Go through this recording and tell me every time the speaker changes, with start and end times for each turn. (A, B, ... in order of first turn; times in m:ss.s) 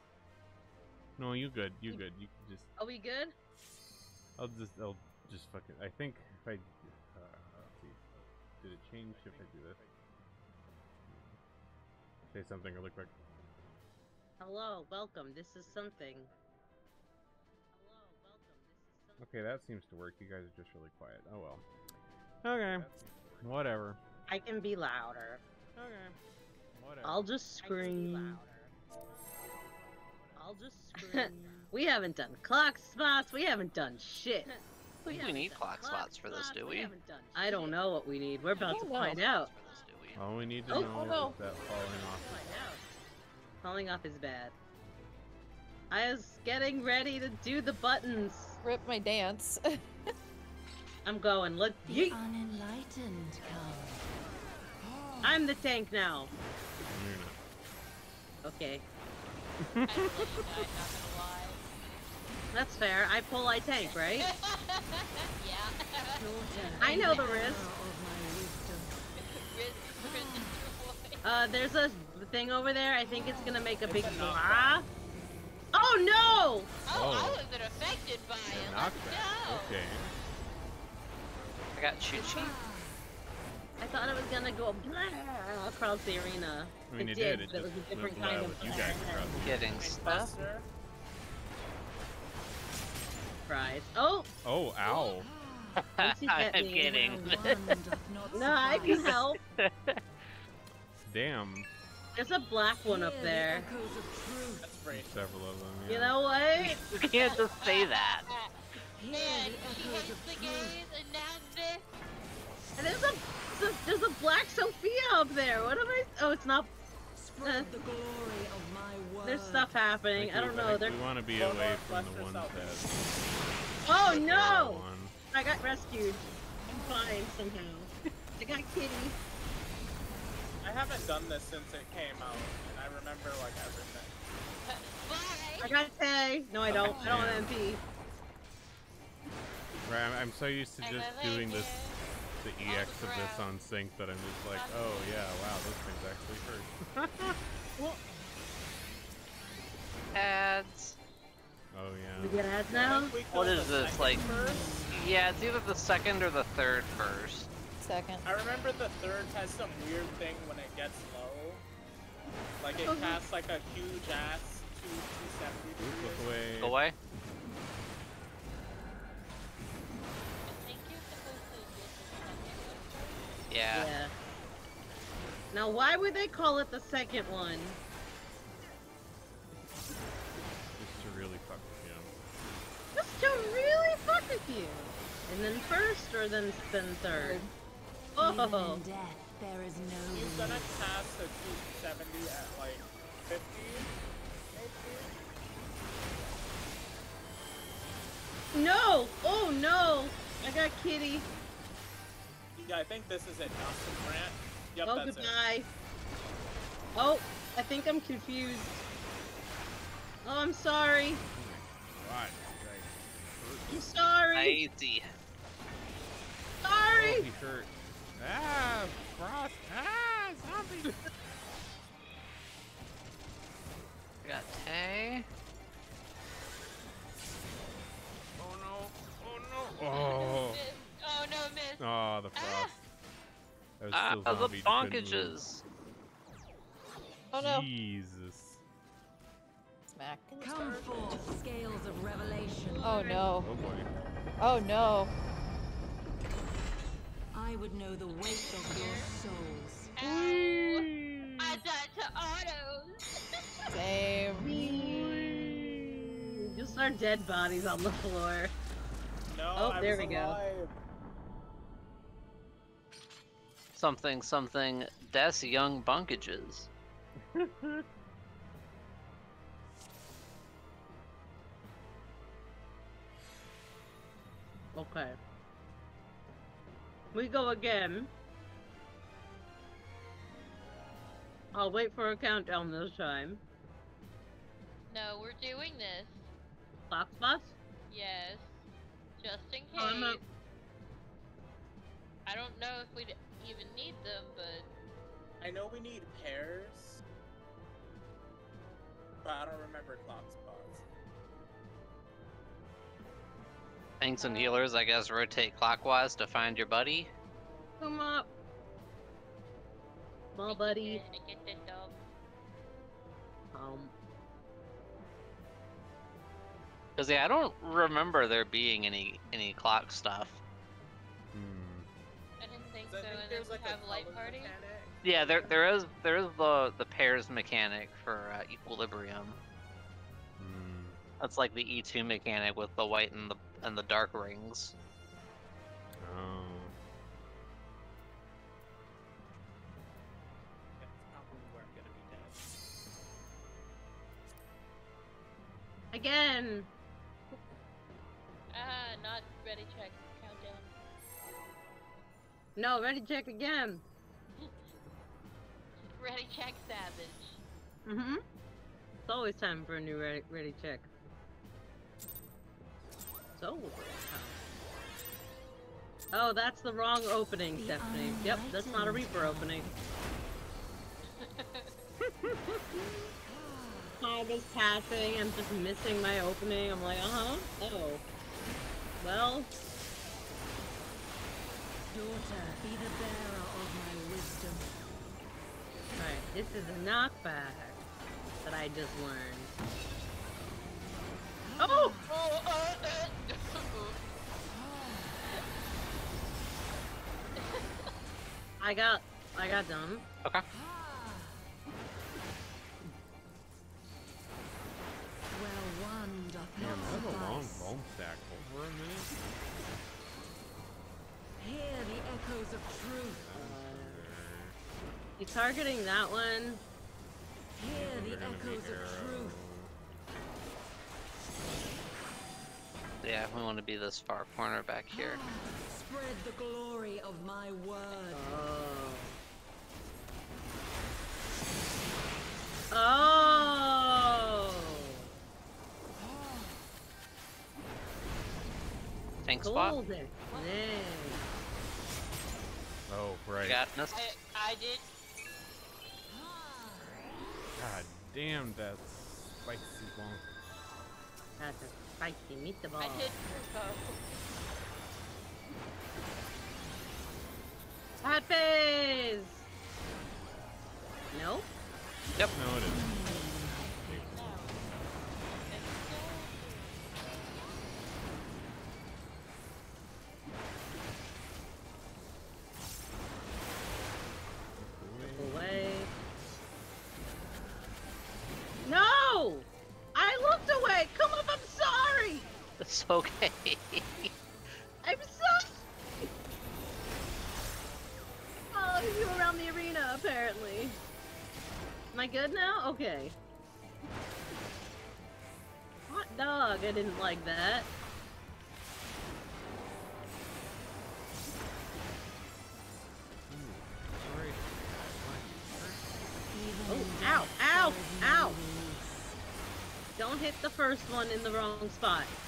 0:01.2-0:02.7 A
0:02.8-0:03.3 B
0:04.4-0:09.8 A
0:09.0-0:09.9 C
0:11.1-0:11.4 A
0:12.3-0:13.1 A
0:14.4-0:16.3 B
0:17.8-0:19.3 B
0:19.2-0:21.6 A
0:22.4-0:24.0 A
0:22.8-0:23.1 C
0:24.3-0:25.4 B
0:25.8-0:26.2 A
0:26.7-0:27.4 A
0:27.0-0:28.4 B
0:27.6-0:28.0 C
0:30.4-0:34.5 B
0:35.0-0:39.5 B
0:35.1-0:36.9 D
0:38.6-0:39.2 E
0:38.8-0:40.2 D
0:40.2-0:42.5 A
0:40.7-0:42.8 B
0:40.8-0:41.4 E
0:43.6-0:44.6 B
0:45.9-0:48.6 B
0:48.6-0:49.8 E
0:51.0-0:52.2 B
0:51.8-0:54.1 F
0:55.2-0:56.3 B
0:56.9-0:57.4 A
0:58.4-0:58.8 B
0:59.6-1:00.4 A
0:59.9-1:01.6 G
1:02.5-1:04.3 B
1:03.8-1:07.1 G
1:06.2-1:09.0 F
1:06.8-1:07.6 B
1:09.2-1:11.2 G
1:10.1-1:10.5 F
1:11.2-1:14.8 B
1:13.8-1:14.8 C
1:15.7-1:16.7 B
1:16.9-1:19.8 G
1:16.9-1:17.4 A
1:18.5-1:20.1 A
1:21.8-1:22.6 D
1:22.2-1:23.0 F
1:23.8-1:29.4 B
1:26.9-1:29.7 A
1:29.4-1:30.3 D
1:29.8-1:30.7 C
1:33.5-1:34.3 B
1:34.4-1:35.3 A
1:35.2-1:35.8 F
1:35.8-1:37.8 D
1:36.0-1:37.2 B
1:36.8-1:39.2 F
1:38.3-1:39.4 B
1:39.0-1:40.0 D
1:41.1-1:41.7 A
1:42.2-1:43.7 B
1:42.8-1:44.9 F
1:44.6-1:45.2 C
1:44.9-1:46.2 A
1:45.9-1:46.9 B
1:46.6-1:48.3 D
1:47.1-1:51.9 G
1:49.0-1:50.8 F
1:52.8-1:56.7 B
1:57.2-1:59.7 F
1:57.4-1:57.7 B
1:59.2-2:01.0 B
2:00.2-2:03.0 A
2:01.4-2:03.1 C
2:03.9-2:09.2 B
2:03.9-2:05.1 A
2:06.7-2:07.1 F
2:10.6-2:14.1 C
2:14.6-2:15.8 G
2:15.6-2:17.8 B
2:16.7-2:17.5 A
2:19.9-2:21.7 A
2:20.8-2:22.0 G
2:22.4-2:27.4 A
2:22.7-2:23.5 G
2:24.5-2:25.2 G
2:30.2-2:31.0 D
2:31.7-2:32.4 A
2:32.2-2:33.1 B
2:32.7-2:34.8 C
2:33.3-2:34.3 D
2:34.2-2:35.1 F
2:34.9-2:37.5 D
2:37.8-2:38.2 E
2:38.2-2:41.6 C
2:42.6-2:46.4 C
2:42.8-2:43.2 B
2:45.8-2:46.8 A
2:46.6-2:47.0 D
2:50.5-2:53.3 G
2:53.5-2:53.9 D
2:53.7-2:54.1 B
2:55.5-2:57.8 B
3:00.8-3:02.1 A
3:03.0-3:07.4 B
3:07.1-3:07.5 E
3:08.2-3:08.8 B
3:08.2-3:10.9 F
3:10.1-3:13.9 C
3:14.5-3:15.1 C
3:18.5-3:21.3 B
3:22.6-3:25.4 C
3:24.8-3:25.7 B
3:27.0-3:28.8 B
3:30.2-3:31.2 B
3:31.3-3:33.9 A
3:33.7-3:34.6 B
3:34.3-3:35.1 D
3:36.6-3:37.3 B
3:37.0-3:41.0 A
3:44.2-3:45.2 D
3:48.4-3:50.6 A
3:49.9-3:51.8 G
3:51.8-3:52.8 A
3:52.4-3:52.7 G
3:53.8-3:55.4 A
3:53.9-3:55.6 D
3:57.3-3:57.7 E
3:57.4-3:58.6 A
3:59.9-4:00.4 E
4:00.4-4:03.0 F
4:00.4-4:01.3 C
4:02.8-4:03.2 B
4:02.8-4:03.5 E
4:03.4-4:03.9 A
4:04.4-4:05.1 E
4:07.3-4:09.9 F
4:08.2-4:09.1 G
4:10.0-4:10.8 G
4:10.0-4:11.6 A
4:11.4-4:13.0 G
4:13.7-4:14.5 E
4:14.4-4:15.5 B
4:14.5-4:16.2 A
4:16.4-4:18.5 B
4:19.3-4:20.8 C
4:19.6-4:20.4 B
4:23.8-4:26.7 D
4:27.2-4:27.9 A
4:34.8-4:35.2 B
4:37.1-4:38.1 B
4:41.5-4:43.4 B
4:44.9-4:46.3 G
4:46.9-4:47.5 B
4:47.9-4:48.6 G
4:49.2-4:50.2 G
4:49.8-4:50.2 B
4:52.3-4:54.7 G
4:55.4-4:57.0 C
4:59.2-5:00.8 C
5:04.0-5:07.1 D
5:04.2-5:04.6 B
5:07.8-5:08.3 B
5:10.4-5:11.0 B
5:10.5-5:12.0 G
5:13.5-5:13.9 B
5:17.0-5:20.4 D
5:21.3-5:21.9 A
5:22.4-5:24.6 G
5:22.9-5:25.7 C
5:25.0-5:29.4 D
5:30.4-5:31.0 A
5:31.2-5:34.7 D
5:36.0-5:36.7 A
5:40.8-5:42.4 C
5:45.9-5:46.7 B
5:48.5-5:50.7 G
5:52.6-5:53.8 B
5:55.9-5:57.4 G
5:57.9-5:58.2 B
5:59.1-6:00.9 B
6:03.4-6:04.5 B
6:06.1-6:09.7 B
6:07.6-6:09.7 F
6:11.1-6:11.8 G
6:12.0-6:13.1 A
6:14.0-6:18.0 B
6:19.0-6:19.5 B
6:21.9-6:24.7 F
6:26.0-6:27.8 B
6:28.4-6:29.5 B
6:31.6-6:32.0 B
6:32.1-6:34.0 G
6:37.4-6:37.9 G
6:38.6-6:40.0 B
6:45.3-6:47.7 F
6:46.6-6:49.1 A
6:51.4-6:53.3 F
6:53.1-6:54.6 A
6:53.3-6:54.1 B
6:55.2-6:56.6 B
6:57.6-6:59.4 F
6:57.7-6:59.7 A
7:03.0-7:05.2 D
7:04.9-7:08.3 F
7:08.1-7:09.2 B
7:12.7-7:15.1 B
7:19.2-7:19.8 D
7:19.4-7:21.2 B
7:20.3-7:20.8 G
7:22.9-7:23.6 A
7:23.4-7:24.0 D
7:23.9-7:24.9 G
7:27.6-7:30.3 A
7:31.4-7:33.2 B
7:32.8-7:34.0 G
7:38.0-7:39.5 B
7:41.1-7:41.5 B
7:42.3-7:44.8 A
7:42.6-7:44.2 F
7:44.1-7:44.6 G
7:45.5-7:46.8 G
7:54.6-7:55.5 A
7:55.1-7:55.9 B
7:58.6-8:02.3 B
8:02.6-8:04.1 D
8:04.8-8:06.1 B
8:08.5-8:10.8 B
8:11.9-8:13.2 B
8:15.9-8:17.7 B
8:23.3-8:26.2 A
8:26.3-8:29.2 F
8:26.7-8:28.4 B
8:30.0-8:32.1 B